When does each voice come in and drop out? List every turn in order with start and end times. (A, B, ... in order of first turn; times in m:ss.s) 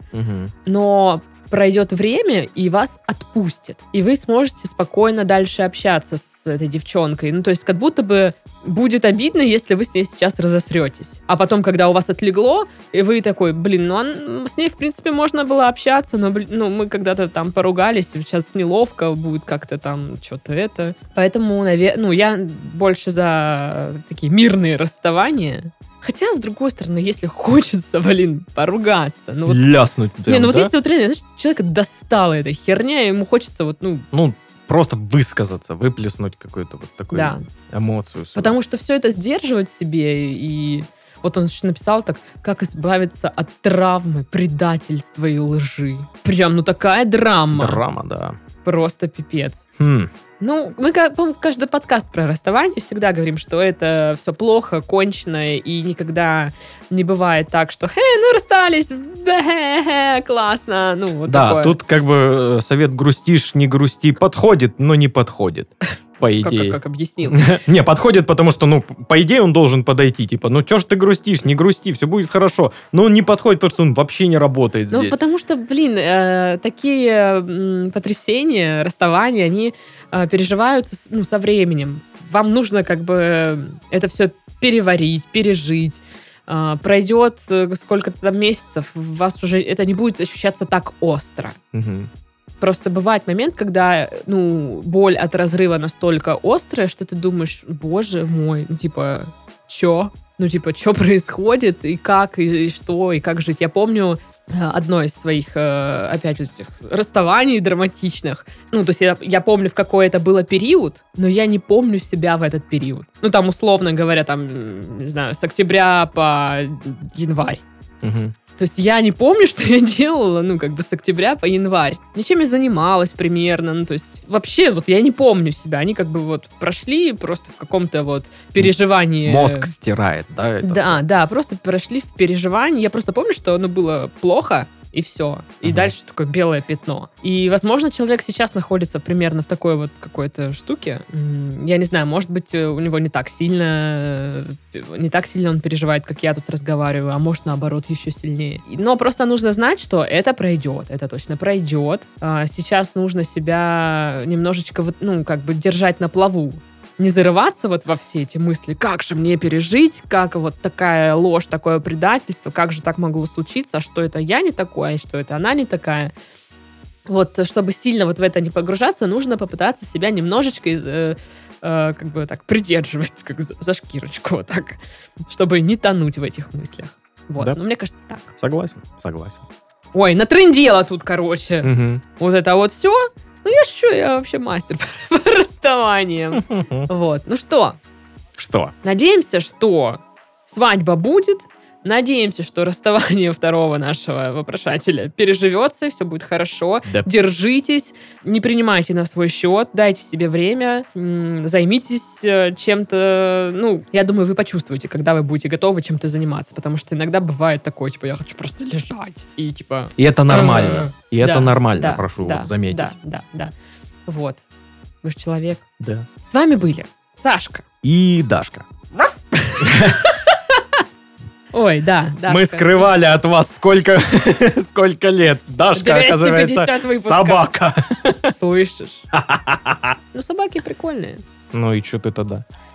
0:00.1-0:00.5 A
0:00.6-0:29.7 B
0:29.5-0:30.7 A
0:30.2-0:34.1 B
0:34.1-0:38.6 A
0:37.1-0:37.4 B
0:38.3-0:47.8 B
0:47.5-0:48.4 A
0:48.6-0:49.7 B
0:49.8-0:50.1 A
0:50.4-1:01.8 B
1:01.2-1:15.2 A
1:06.4-1:07.6 B
1:14.9-1:31.6 B
1:31.7-1:32.1 A
1:32.6-1:57.6 B
1:58.0-1:58.3 A
1:58.6-2:09.7 B
2:09.2-2:11.0 A
2:10.6-2:46.1 B
2:15.6-2:15.9 A
2:47.1-2:58.3 B
2:58.4-2:59.4 A
2:59.9-3:07.8 B
3:01.6-3:02.0 A
3:06.4-3:06.9 A
3:08.4-3:08.7 A
3:08.8-3:33.5 B
3:30.0-3:32.9 A
3:34.1-3:34.4 B
3:35.0-3:35.6 B
3:35.8-3:36.1 A
3:36.2-3:37.6 B
3:37.8-3:38.6 A
3:38.9-3:39.9 B
3:39.6-3:40.1 A
3:41.5-3:42.9 B
3:42.3-3:48.3 A
3:45.8-3:47.5 B
3:48.2-3:49.1 B
3:49.1-3:49.9 A
3:50.1-3:51.2 B
3:51.5-3:52.4 A